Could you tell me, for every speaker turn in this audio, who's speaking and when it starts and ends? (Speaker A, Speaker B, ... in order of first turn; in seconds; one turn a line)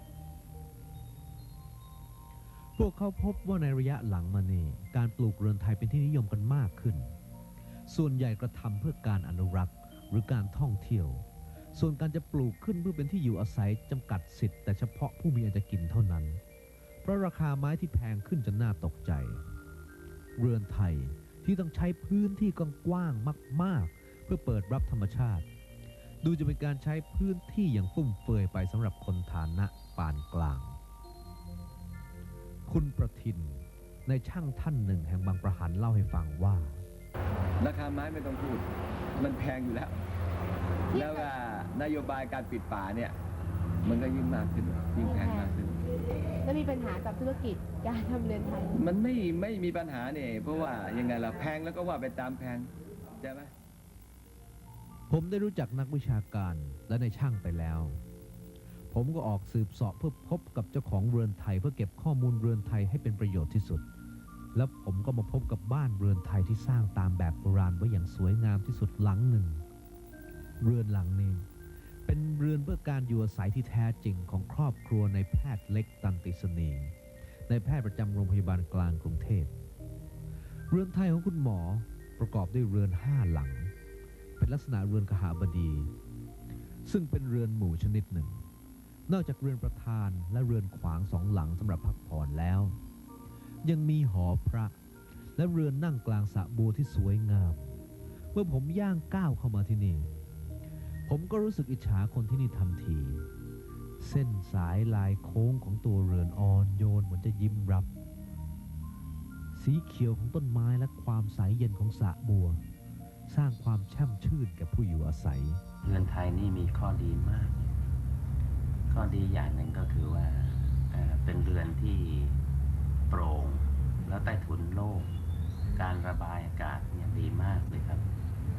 Speaker A: 2.8-7.0
Speaker A: 7.9-11.2
Speaker A: 11.8-16.4
Speaker A: 17.0-19.4
Speaker A: 20.4-25.4
Speaker A: 26.2-30.8
Speaker A: 32.7-36.8
Speaker B: 37.6-38.7
Speaker B: 39.2-40.0
Speaker B: 40.9-43.1
Speaker B: 43.8-45.8
Speaker C: 45.1-45.4
Speaker C: 46.5-48.6
Speaker B: 48.7-52.7
Speaker B: 53.2-53.5
Speaker A: 55.1-57.9
Speaker A: 58.9-63.8
Speaker A: 64.5-69.6
Speaker A: 70.6-71.4
Speaker A: 72.1-76.9
Speaker A: 77.5-79.5
Speaker A: 80.7-83.7
Speaker A: 84.4-85.9
Speaker A: 86.8-88.4
Speaker A: 89.1-92.7
Speaker A: 93.6-94.7
Speaker A: 95.4-97.7
Speaker A: 98.3-100.1
Speaker A: 101.1-103.2
Speaker A: 104.0-107.9
Speaker A: 109.6-112.6
Speaker A: 113.3-115.6
Speaker D: 115.8-117.6
Speaker D: 118.9-122.4
Speaker D: 123.1-125.1
Speaker D: 125.8-128.0